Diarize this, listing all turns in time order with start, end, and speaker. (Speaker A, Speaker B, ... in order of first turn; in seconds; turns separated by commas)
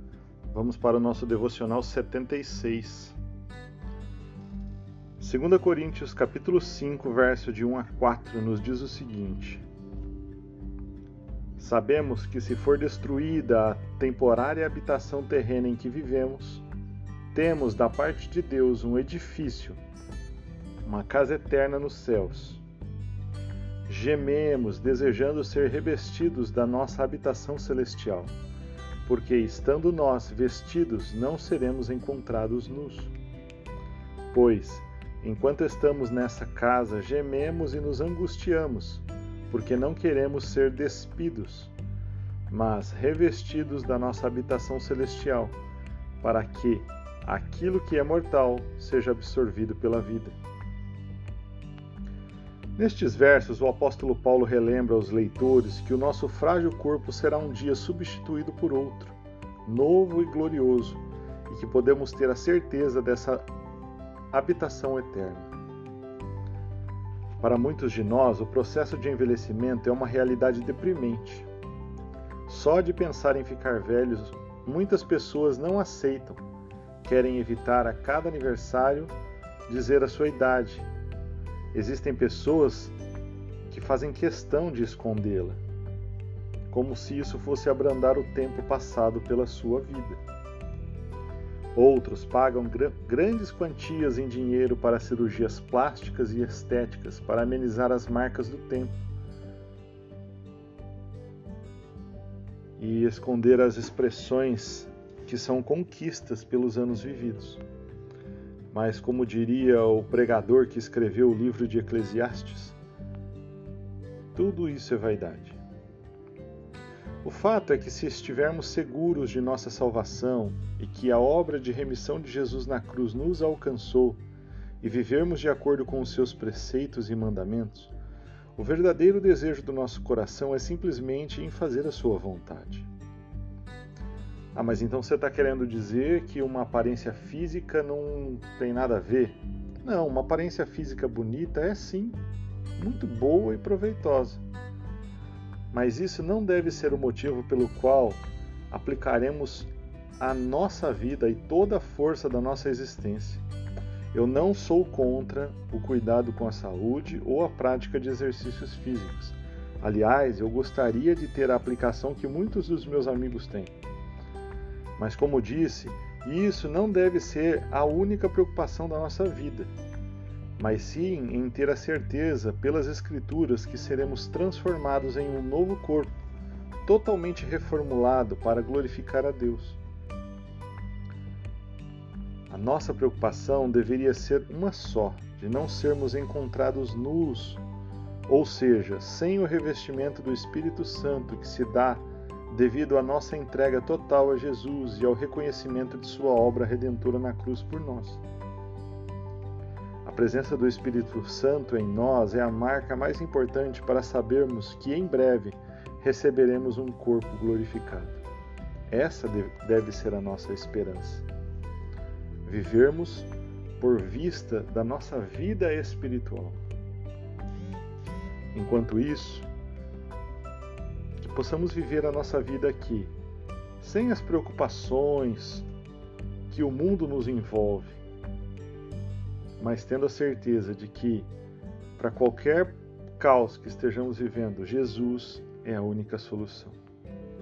Speaker A: 0.5-3.2, Speaker A: 5.2-9.6, Speaker A: 11.6-16.6, Speaker A: 17.3-19.8, Speaker A: 20.8-22.6, Speaker A: 23.9-28.3, Speaker A: 29.0-33.1, Speaker A: 34.3-41.7, Speaker A: 42.5-45.5, Speaker A: 46.2-50.4, Speaker A: 52.8-63.5, Speaker A: 64.3-65.5, Speaker A: 67.4-71.5, Speaker A: 72.5-76.4, Speaker A: 77.0-79.1, Speaker A: 79.7-80.9, Speaker A: 81.7-82.9, Speaker A: 83.7-85.6, Speaker A: 86.7-90.2, Speaker A: 91.7-99.0, Speaker A: 102.8-107.6, Speaker A: 108.7-112.8, Speaker A: 114.3-115.6, Speaker A: 117.2-124.2, Speaker A: 124.8-127.9, Speaker A: 128.6-132.9, Speaker A: 134.5-142.2, Speaker A: 142.8-144.4, Speaker A: 145.7-153.4, Speaker A: 154.1-163.7, Speaker A: 165.0-169.7, Speaker A: 170.6-176.2, Speaker A: 176.8-179.8, Speaker A: 182.5-187.6, Speaker A: 188.3-198.2, Speaker A: 200.0-208.2, Speaker A: 208.9-211.2, Speaker A: 212.4-216.6, Speaker A: 218.5-219.5, Speaker A: 221.2-223.1, Speaker A: 223.8-225.7, Speaker A: 226.5-228.0, Speaker A: 229.6-231.3, Speaker A: 232.0-236.8